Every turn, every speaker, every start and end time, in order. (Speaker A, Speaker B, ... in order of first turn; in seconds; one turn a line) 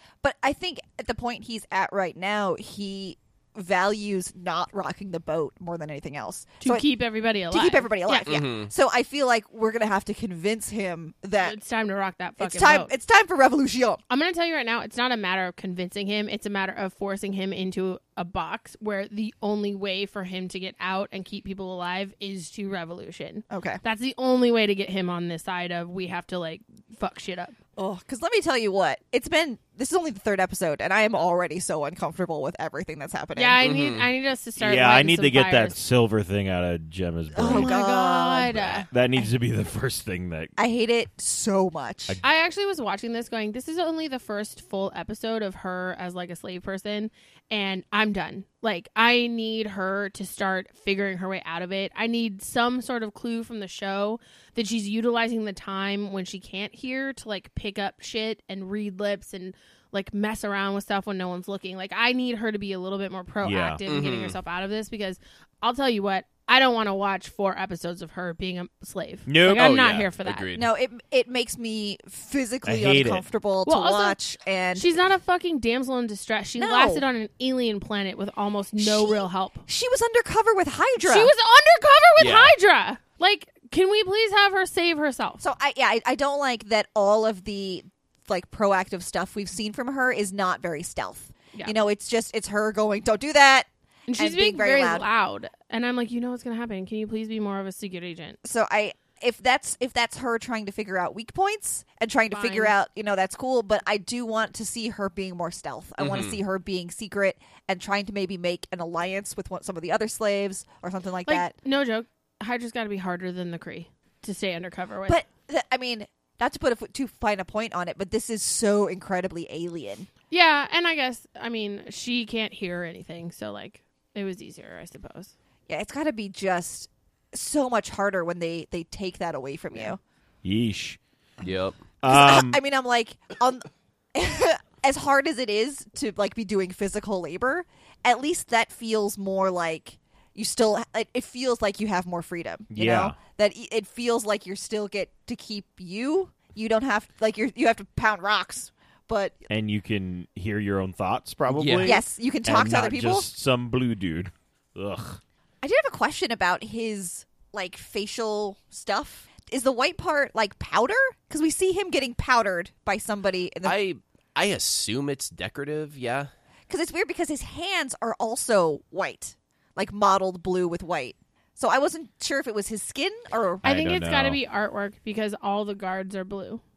Speaker A: 0.2-6.9
Speaker B: 6.6-8.3
Speaker A: 7.5-11.6
Speaker C: 8.2-8.7
Speaker B: 11.4-12.9
Speaker A: 12.4-14.0
Speaker B: 14.1-27.5
Speaker A: 23.5-23.8
Speaker A: 27.8-33.6
Speaker B: 33.4-35.8
Speaker C: 33.6-34.1
Speaker D: 34.6-37.8
Speaker A: 37.3-39.3
Speaker B: 37.4-38.9
Speaker D: 38.9-40.5
Speaker A: 40.6-42.2
Speaker B: 42.2-70.5
Speaker D: 63.4-63.8
Speaker C: 63.9-64.4
Speaker D: 69.2-69.7
Speaker C: 69.5-70.7
Speaker A: 70.5-74.9
Speaker D: 72.6-73.2
Speaker B: 73.7-74.2
Speaker B: 74.7-79.6
Speaker A: 76.6-77.0
Speaker A: 78.8-81.3
Speaker B: 81.0-85.4
Speaker C: 82.2-82.5
Speaker A: 85.4-95.0
Speaker B: 94.1-98.4
Speaker A: 98.4-111.5
Speaker B: 102.3-102.7
Speaker C: 106.0-106.4
Speaker B: 111.2-115.2
Speaker A: 115.1-120.1
Speaker B: 120.3-125.3
Speaker A: 125.7-130.0
Speaker D: 130.4-131.0
Speaker C: 131.4-131.8
Speaker D: 132.0-132.6
Speaker A: 132.0-149.4
Speaker D: 142.7-143.2
Speaker D: 149.5-155.2
Speaker C: 151.5-152.0
Speaker A: 151.8-153.3
Speaker A: 155.6-163.8
Speaker C: 163.6-166.3
Speaker A: 166.7-173.7
Speaker B: 173.6-176.6
Speaker D: 173.6-174.4